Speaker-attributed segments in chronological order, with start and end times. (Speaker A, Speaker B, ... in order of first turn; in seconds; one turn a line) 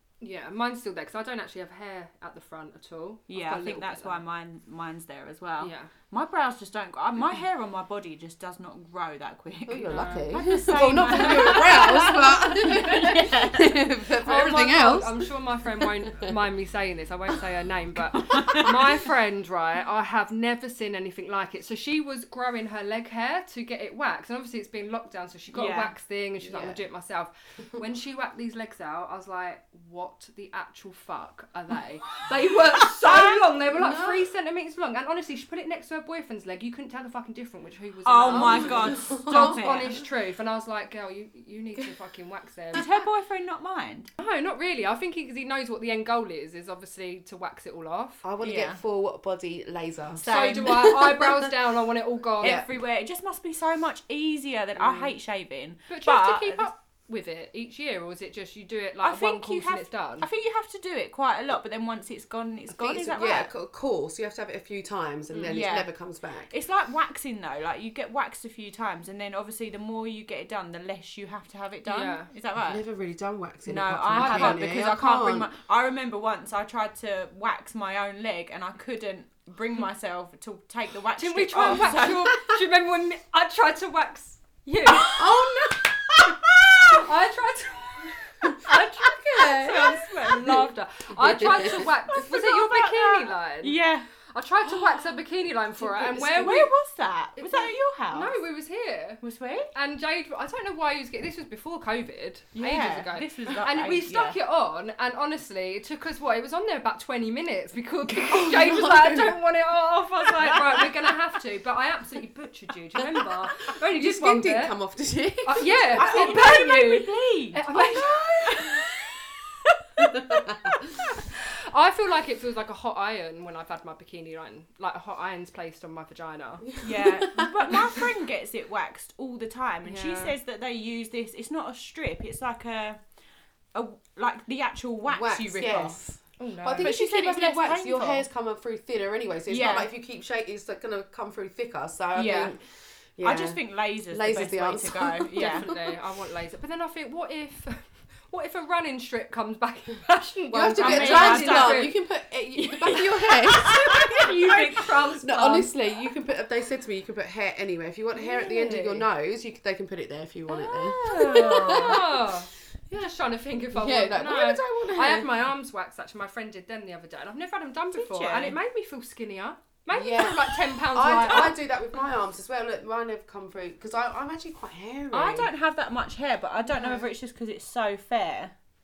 Speaker A: 0.2-4.2
Speaker B: 3.3-13.8
Speaker A: 5.6-5.9
Speaker C: 9.7-16.3
Speaker A: 9.9-10.3
Speaker A: 14.2-42.8
Speaker B: 18.3-18.8
Speaker B: 25.5-25.9
Speaker C: 26.4-26.8
Speaker B: 33.0-33.5
Speaker C: 33.7-34.2
Speaker B: 38.0-39.9
Speaker C: 38.3-39.7
Speaker B: 42.7-44.1
Speaker A: 44.2-48.2
Speaker C: 48.2-51.3
Speaker B: 48.4-48.8
Speaker B: 50.2-51.2
Speaker A: 50.3-52.6
Speaker B: 52.4-56.7
Speaker C: 52.4-52.7
Speaker A: 54.8-55.1
Speaker A: 55.9-60.3
Speaker B: 59.0-63.5
Speaker C: 62.7-66.5
Speaker A: 65.3-65.6
Speaker B: 65.5-65.9
Speaker B: 66.5-72.8
Speaker A: 71.9-72.3
Speaker C: 72.6-75.5
Speaker B: 73.7-82.4
Speaker A: 74.2-74.6
Speaker A: 81.2-86.3
Speaker B: 84.9-85.2
Speaker C: 85.0-87.0
Speaker A: 86.9-93.8
Speaker C: 88.4-90.7
Speaker C: 91.2-91.9
Speaker B: 91.6-94.1
Speaker A: 94.3-96.7
Speaker C: 95.8-96.7
Speaker B: 96.2-98.4
Speaker A: 97.4-99.2
Speaker B: 99.2-99.7
Speaker A: 99.7-114.8
Speaker B: 102.5-104.4
Speaker C: 108.3-109.4
Speaker C: 113.9-116.5
Speaker A: 115.4-118.9
Speaker B: 115.9-118.9
Speaker C: 120.0-120.8
Speaker A: 121.0-126.7
Speaker C: 126.7-127.7
Speaker B: 126.8-133.0
Speaker A: 129.9-130.3
Speaker B: 133.7-136.0
Speaker C: 135.1-142.6
Speaker A: 136.4-136.9
Speaker B: 136.8-138.3
Speaker B: 139.5-139.9
Speaker B: 142.2-142.5
Speaker C: 143.2-143.6
Speaker B: 143.2-145.8
Speaker C: 144.1-145.8
Speaker A: 145.3-151.9
Speaker C: 150.5-162.3
Speaker B: 150.8-151.9
Speaker B: 152.6-154.6
Speaker A: 152.9-155.7
Speaker A: 158.2-159.1
Speaker B: 160.5-162.1
Speaker A: 161.6-171.6
Speaker C: 163.7-165.4
Speaker B: 167.9-168.6
Speaker C: 169.9-175.5
Speaker B: 175.1-178.5
Speaker A: 176.6-177.1